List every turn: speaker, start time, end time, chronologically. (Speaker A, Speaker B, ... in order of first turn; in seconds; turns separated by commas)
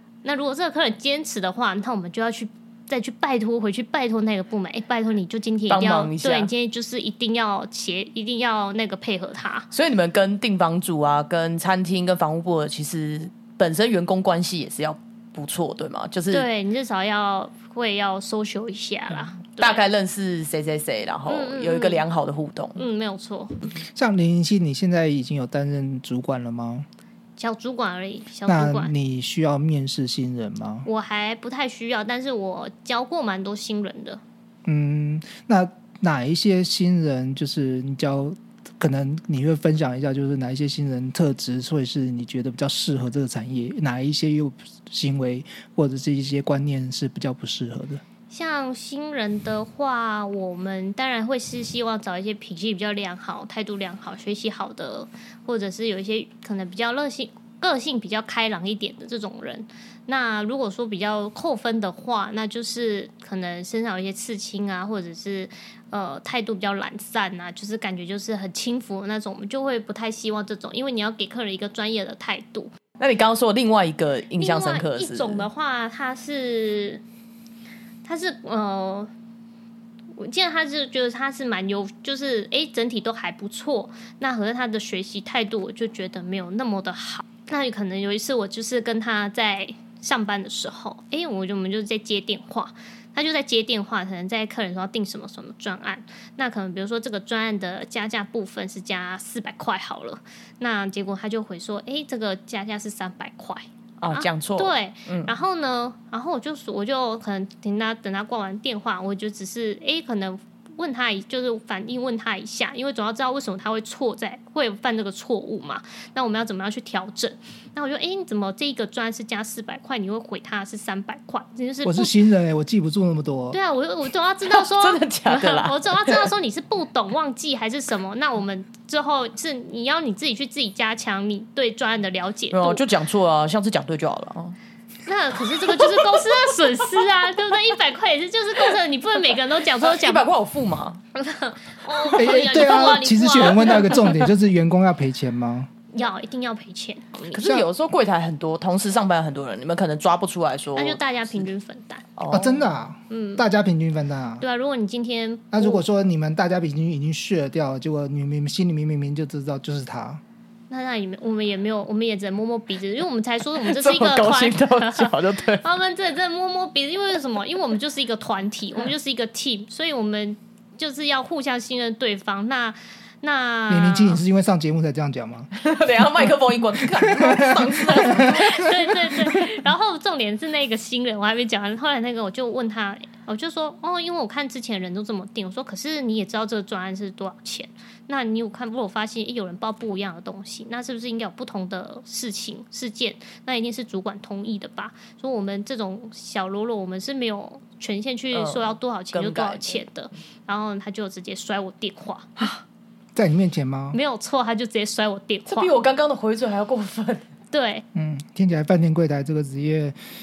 Speaker A: 0.2-9.7, Speaker B: 5.7-6.5, Speaker B: 9.7-16.4, Speaker A: 16.3-19.8, Speaker B: 19.5-22.8, Speaker A: 21.2-22.0, Speaker A: 22.8-23.7, Speaker C: 23.8-26.9, Speaker A: 27.4-28.9, Speaker C: 28.4-30.9, Speaker A: 30.9-34.2, Speaker C: 34.6-48.0, Speaker A: 48.3-72.7, Speaker B: 73.0-75.5, Speaker A: 74.4-77.0, Speaker A: 78.0-79.1, Speaker A: 80.2-122.1, Speaker B: 104.0-105.4, Speaker C: 121.8-123.6, Speaker A: 123.5-132.8, Speaker B: 124.5-126.3, Speaker B: 132.5-134.6, Speaker A: 135.1-140.2, Speaker B: 139.8-141.0, Speaker A: 141.1-144.1, Speaker C: 142.1-145.7, Speaker A: 145.9-147.6, Speaker B: 147.3-151.4, Speaker C: 147.4-147.7, Speaker A: 150.8-152.0, Speaker B: 152.2-152.6, Speaker C: 152.3-154.4, Speaker A: 153.1-153.4, Speaker A: 154.4-155.8, Speaker C: 155.5-160.2, Speaker A: 160.7-174.2, Speaker B: 163.6-165.6, Speaker C: 173.7-175.5, Speaker B: 175.5-178.8, Speaker C: 176.2-178.5, Speaker A: 177.9-202.3, Speaker B: 198.3-199.8, Speaker C: 203.1-204.0, Speaker A: 203.9-205.7, Speaker B: 205.5-207.3, Speaker A: 207.5-207.8, Speaker C: 207.9-209.9